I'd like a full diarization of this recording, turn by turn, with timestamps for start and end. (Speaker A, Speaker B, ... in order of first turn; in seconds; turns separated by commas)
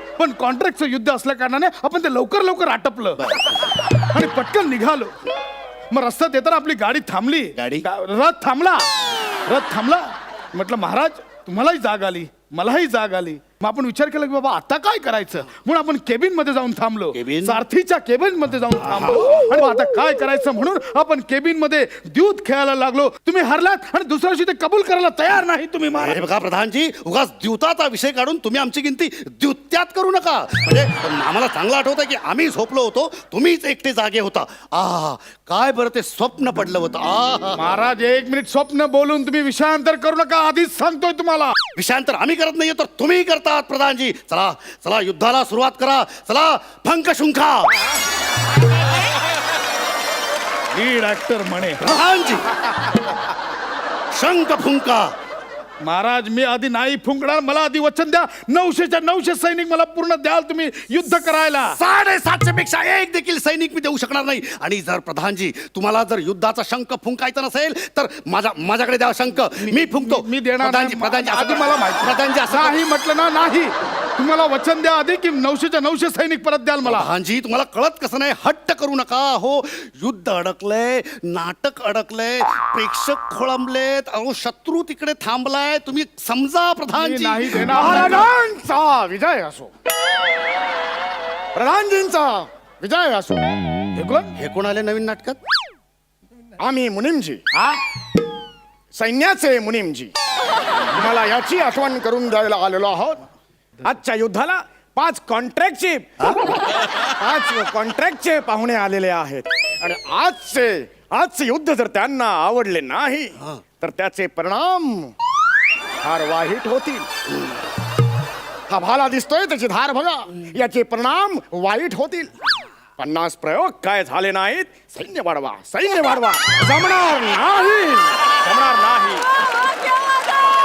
Speaker A: 0.2-3.3, Speaker B: 3.2-3.6, Speaker A: 4.0-5.1, Speaker A: 5.9-8.9, Speaker B: 7.6-7.8, Speaker A: 9.5-26.2, Speaker B: 17.1-17.6, Speaker B: 18.9-19.5, Speaker B: 26.0-37.7, Speaker A: 37.5-41.5, Speaker B: 41.8-47.7, Speaker A: 50.7-51.9, Speaker B: 51.8-52.7, Speaker B: 54.1-55.1, Speaker A: 55.8-61.8, Speaker B: 61.6-72.8, Speaker A: 69.6-77.1, Speaker B: 76.8-87.8, Speaker A: 86.9-88.3, Speaker C: 87.7-89.7, Speaker C: 91.5-93.5, Speaker A: 94.0-94.3, Speaker B: 94.4-95.4, Speaker C: 96.6-97.4, Speaker A: 97.5-97.8, Speaker C: 98.9-100.1, Speaker C: 100.9-103.2, Speaker C: 103.8-106.1, Speaker B: 106.2-106.5, Speaker C: 107.2-115.1, Speaker C: 116.0-117.1, Speaker C: 118.7-122.3, Speaker C: 123.0-129.2